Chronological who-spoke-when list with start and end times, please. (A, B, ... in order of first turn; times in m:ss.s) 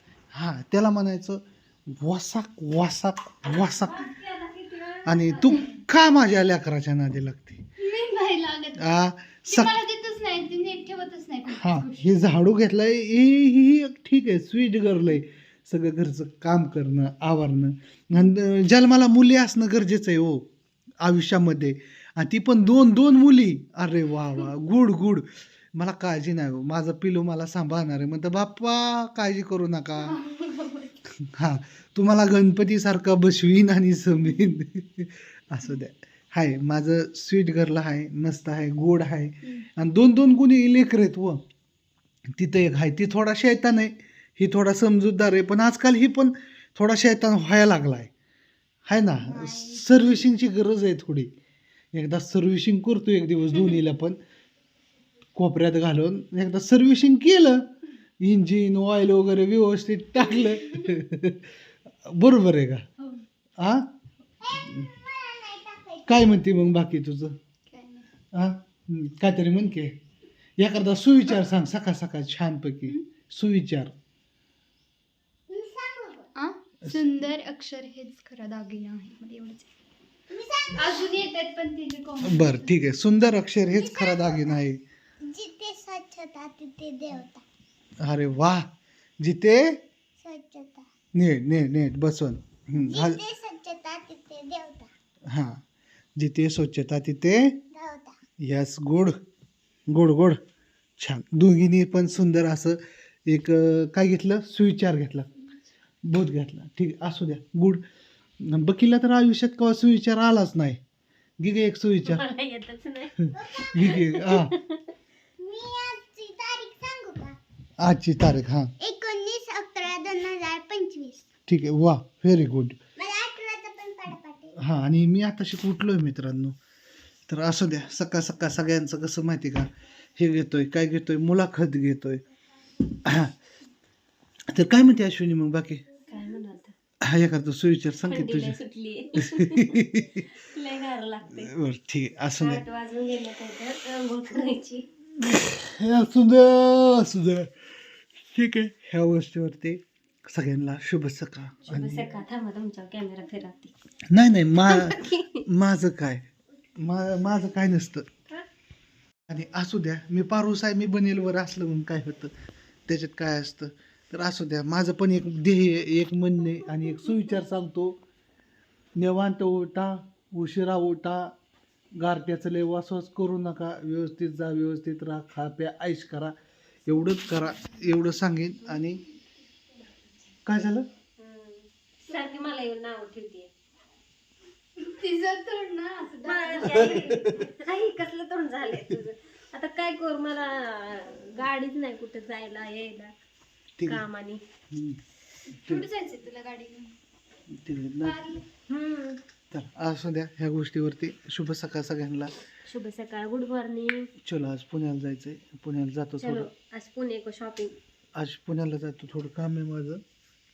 0:00.3-0:04.0 A
0:03.8-0:05.6 B
0:05.0-0:07.7 A
0:07.8-0:08.9 C
0:08.8-0:09.8 A
0:09.4-0:12.1 C
0:11.5-0:20.5 A
0:21.0-0:30.2 A
0:30.0-0:30.9 C
0:31.2-0:41.4 A
0:42.4-0:48.1 A
0:48.8-0:51.3 A
0:49.3-0:49.8 D
0:51.9-0:54.2 A
0:55.4-0:57.7 A
0:58.2-1:01.5 A
1:02.0-1:02.9 A
1:03.6-1:03.9 A
1:04.4-1:06.4 D
1:06.1-1:07.4 A
1:07.7-1:08.0 C
1:08.3-1:10.0 A
1:10.6-1:13.9 A
1:15.5-1:16.3 D
1:16.4-1:19.7 C
1:20.3-1:21.2 D
1:20.7-1:22.7 C
1:22.2-1:24.8 A
1:23.7-1:24.6 D
1:25.2-1:27.4 D
1:28.0-1:28.7 A
1:29.2-1:29.8 A
1:30.2-1:30.9 D
1:31.1-1:33.2 A
1:32.8-1:34.9 D
1:35.3-1:35.6 A
1:36.2-1:37.6 A
1:37.7-1:38.2 D
1:38.4-1:39.2 A
1:39.9-1:40.4 A
1:41.0-1:45.3 A
1:46.0-1:47.8 A
1:48.4-1:50.8 A
1:51.4-1:52.2 A
1:52.0-1:53.2 B
1:53.3-1:54.2 D
1:53.7-1:54.5 A
1:53.8-1:54.9 B
1:55.4-1:57.4 D
1:57.8-1:58.7 A
1:58.8-2:01.2 D
2:01.5-2:02.8 A
2:03.0-2:04.5 D
2:04.6-2:06.6 A
2:07.3-2:12.2 A
2:13.0-2:13.3 A
2:14.5-2:15.8 A
2:16.1-2:16.7 B
2:17.0-2:18.6 A
2:18.0-2:21.5 B
2:19.2-2:20.2 A
2:21.4-2:22.6 A
2:22.4-2:24.9 B
2:25.2-2:27.5 A
2:28.2-2:32.1 A
2:31.7-2:33.7 B
2:34.1-2:36.2 A
2:34.6-2:35.4 B
2:36.8-2:38.1 A
2:39.3-2:42.3 A
2:42.9-2:48.0 A
2:49.0-2:51.3 A
2:52.0-2:56.3 A
2:56.9-2:59.0 A
3:00.4-3:00.9 A
3:01.2-3:03.5 B
3:04.8-3:07.2 C
3:06.2-3:13.1 B
3:06.7-3:07.4 A
3:13.8-3:14.0 A
3:13.8-3:14.4 B
3:14.7-3:15.0 A
3:15.5-3:16.9 C
3:15.5-3:15.8 A
3:17.5-3:18.2 A
3:18.0-3:18.4 C
3:18.7-3:19.2 B
3:19.5-3:22.3 A
3:22.6-3:24.1 B
3:24.2-3:26.5 A
3:26.2-3:27.7 B
3:28.2-3:30.0 A